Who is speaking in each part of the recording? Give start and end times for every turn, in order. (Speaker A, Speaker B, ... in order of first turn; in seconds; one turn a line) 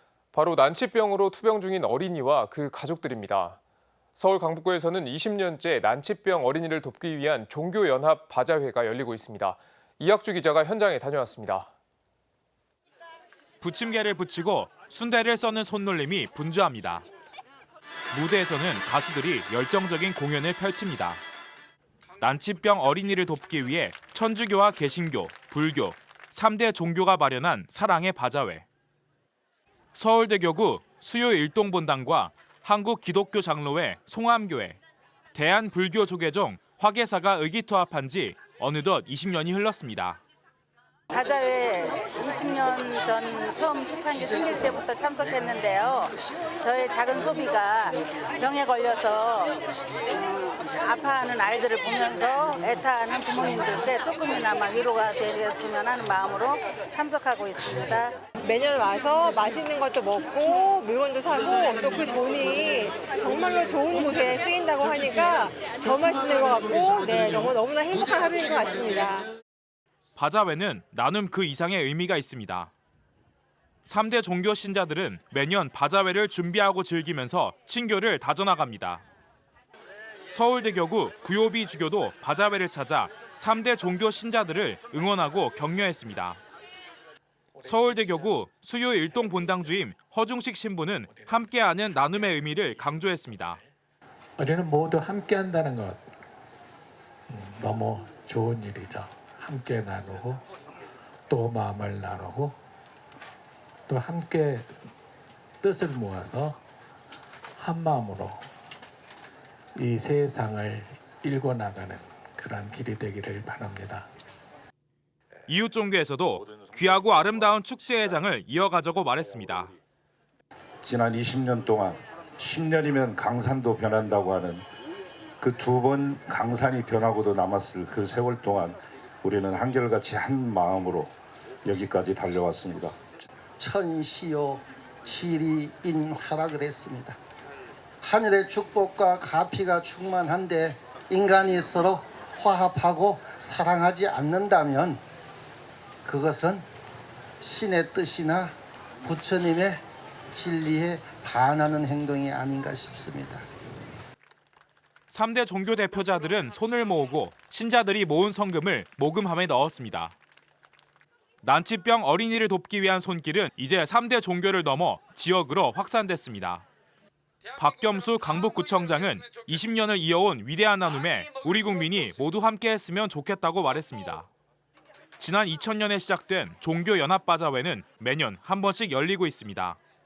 Speaker A: 0.3-3.6
Speaker A: 4.2-11.7
Speaker B: 13.6-17.0
Speaker B: 18.1-21.2
Speaker B: 22.2-28.6
Speaker B: 29.9-34.8
Speaker B: 35.3-40.2
Speaker C: 41.1-58.2
Speaker D: 58.4-69.2
Speaker B: 70.2-72.7
Speaker B: 73.8-79.0
Speaker B: 80.3-86.4
Speaker B: 87.6-93.6
Speaker E: 94.4-96.0
Speaker E: 97.3-100.4
Speaker E: 101.3-102.5
Speaker E: 103.9-104.7
Speaker E: 105.6-106.6
Speaker E: 107.6-108.5
Speaker E: 109.7-114.1
Speaker B: 115.5-119.7
Speaker F: 120.8-124.6
Speaker F: 125.4-131.1
Speaker F: 131.6-132.9
Speaker G: 133.6-137.2
Speaker G: 138.0-145.0
Speaker G: 146.0-146.6
Speaker G: 147.4-153.4
Speaker B: 155.1-160.1
Speaker B: 161.4-166.6
Speaker B: 167.6-174.3
Speaker B: 175.2-179.8